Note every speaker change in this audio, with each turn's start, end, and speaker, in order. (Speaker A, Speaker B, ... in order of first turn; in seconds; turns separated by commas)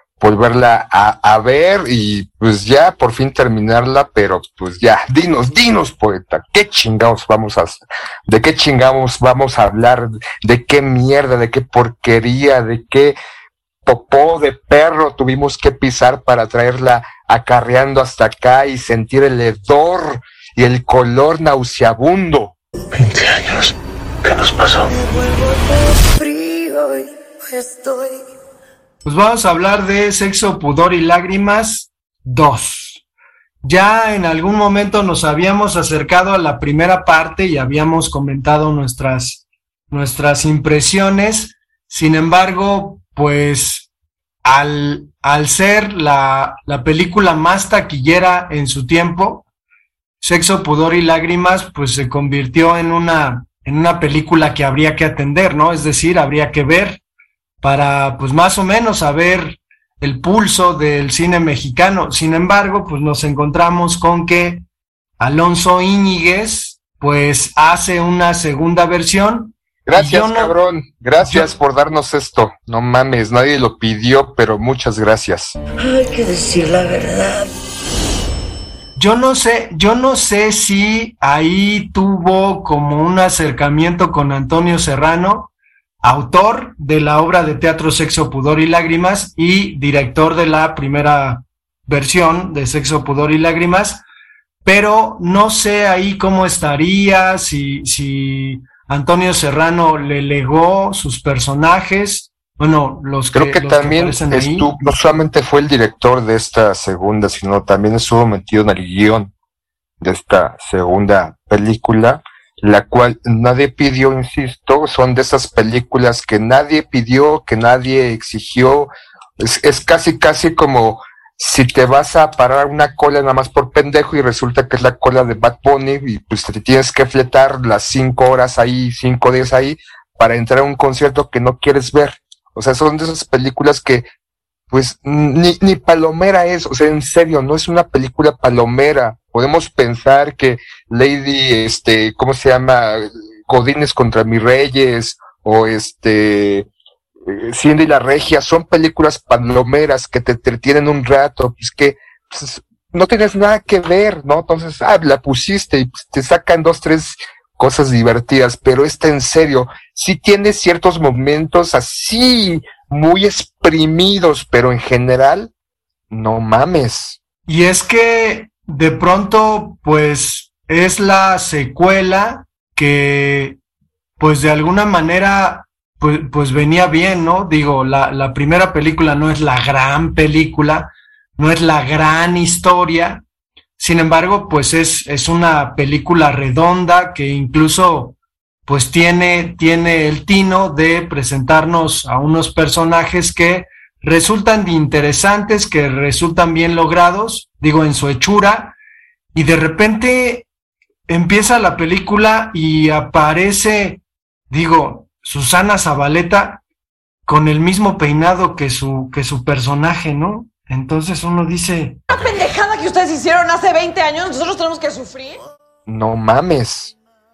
Speaker A: 0.2-13.2, Speaker A: 13.8-22.5, Speaker B: 22.9-24.9, Speaker C: 24.9-28.2, Speaker D: 29.0-33.0, Speaker D: 33.6-43.9, Speaker D: 44.4-49.4, Speaker D: 50.2-57.0, Speaker D: 57.6-64.6, Speaker D: 65.2-70.5, Speaker A: 69.8-75.5, Speaker D: 71.2-71.5, Speaker C: 75.8-77.5, Speaker D: 79.0-85.5, Speaker D: 86.0-94.0, Speaker D: 94.6-104.7, Speaker A: 103.3-109.3, Speaker A: 110.0-134.1, Speaker A: 134.7-146.7, Speaker A: 147.2-165.5, Speaker A: 166.1-167.2, Speaker D: 167.5-173.6, Speaker D: 174.2-183.2, Speaker D: 183.8-198.7, Speaker D: 199.3-200.4, Speaker D: 201.1-206.6, Speaker D: 207.3-212.0, Speaker E: 212.1-215.4, Speaker A: 215.9-216.9